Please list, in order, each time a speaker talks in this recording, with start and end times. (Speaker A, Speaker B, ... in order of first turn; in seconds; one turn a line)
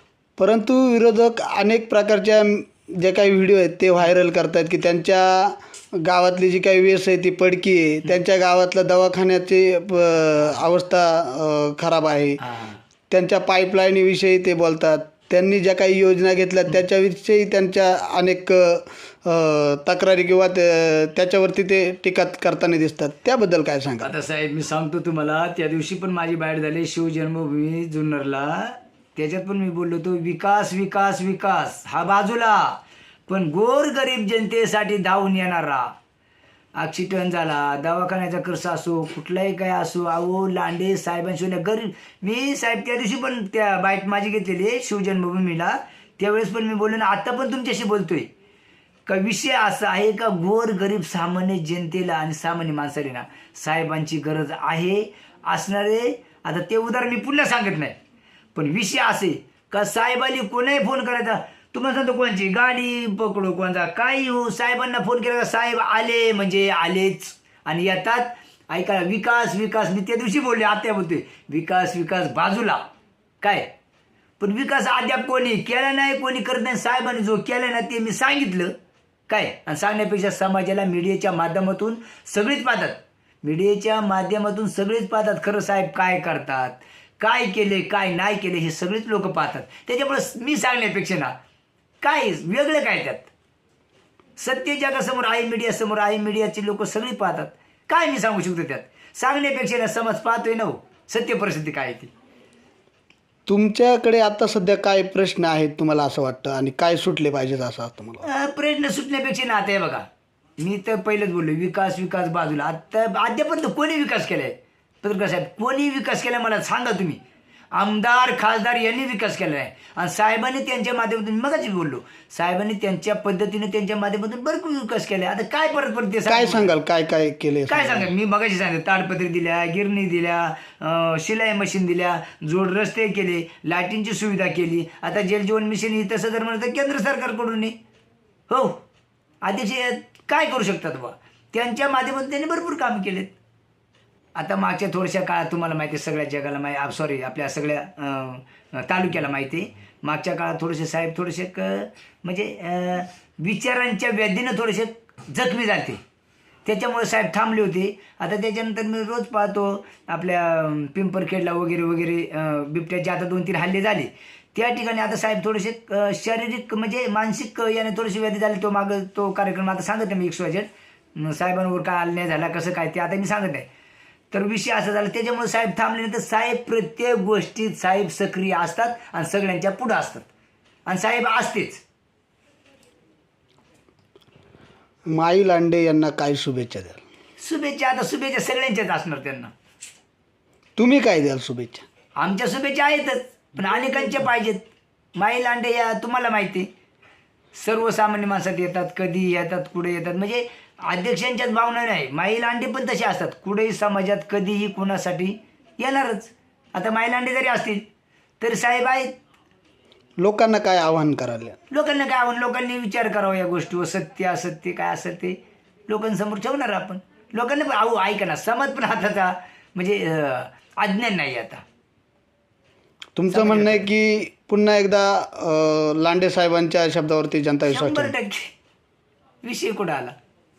Speaker A: 0.4-12.4
Speaker B: 12.4-12.8
Speaker A: 13.1-24.1
Speaker B: 24.0-35.9
Speaker B: 36.8-48.3
Speaker B: 49.0-58.0
Speaker B: 58.5-72.9
Speaker B: 73.4-73.7
Speaker B: 74.4-78.7
Speaker B: 79.3-91.3
Speaker B: 92.0-93.3
Speaker B: 94.4-102.1
Speaker A: 103.5-108.2
Speaker B: 108.2-110.0
Speaker B: 110.6-117.2
Speaker B: 117.7-126.7
Speaker A: 126.3-128.1
Speaker B: 127.7-137.8
Speaker B: 138.5-138.8
Speaker B: 139.4-143.3
Speaker B: 144.3-156.0
Speaker B: 156.6-173.7
Speaker B: 174.3-180.2
Speaker B: 180.9-181.8
Speaker A: 185.1-187.0
Speaker B: 187.4-189.5
Speaker A: 190.8-191.8
Speaker B: 192.2-196.7
Speaker B: 197.5-207.8
Speaker B: 208.4-209.1
Speaker A: 210.2-211.6
Speaker B: 211.7-221.6
Speaker A: 223.2-228.1
Speaker B: 223.3-223.9
Speaker B: 227.7-228.5
Speaker B: 229.4-230.1